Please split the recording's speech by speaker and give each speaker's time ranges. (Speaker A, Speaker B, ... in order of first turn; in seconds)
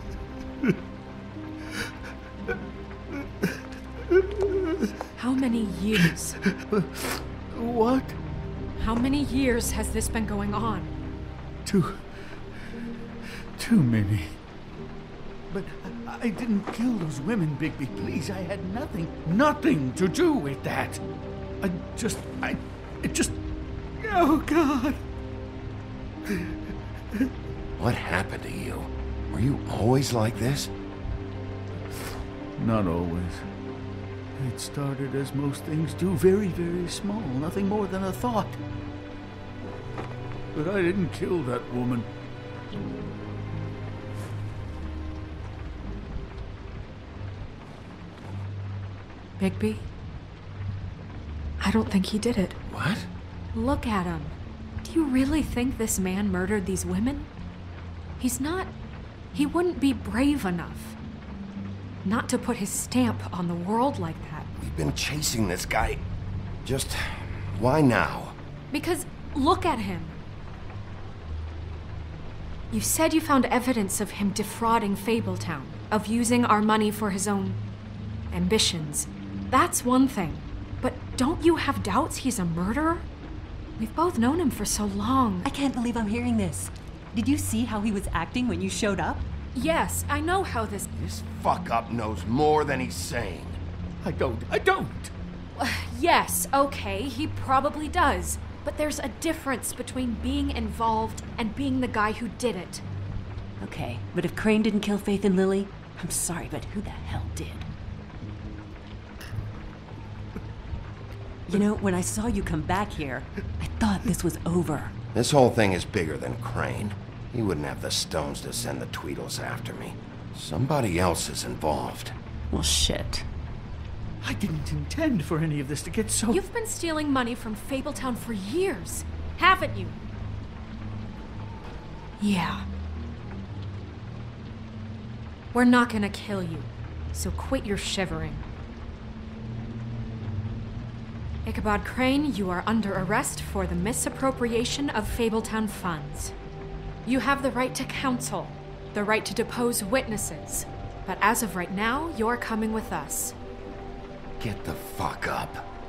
Speaker A: 4.2-4.5, 6.7-8.2, 11.6-12.5, 13.6-14.4, 15.5-21.0, 21.6-23.4, 24.0-25.0, 26.3-26.5, 32.6-33.5, 34.4-38.6, 40.5-42.1, 94.0-95.1, 124.2-126.4
Speaker B: 5.2-6.4, 8.8-10.9, 49.4-49.9, 51.6-52.6, 53.5-57.3, 58.2-58.7, 59.3-61.0, 62.0-64.5, 68.7-70.2, 72.7-77.6, 78.3-83.0, 83.8-85.5, 89.5-90.9, 95.6-102.8, 126.3-129.9, 132.2-132.6, 135.5-138.4, 141.4-146.3, 147.0-153.3
Speaker C: 27.8-30.7, 52.7-53.1, 64.6-66.0, 66.6-68.3, 91.0-93.6, 115.1-122.1, 154.4-155.6
Speaker D: 85.4-89.2, 103.6-107.7, 111.5-114.9, 122.5-123.3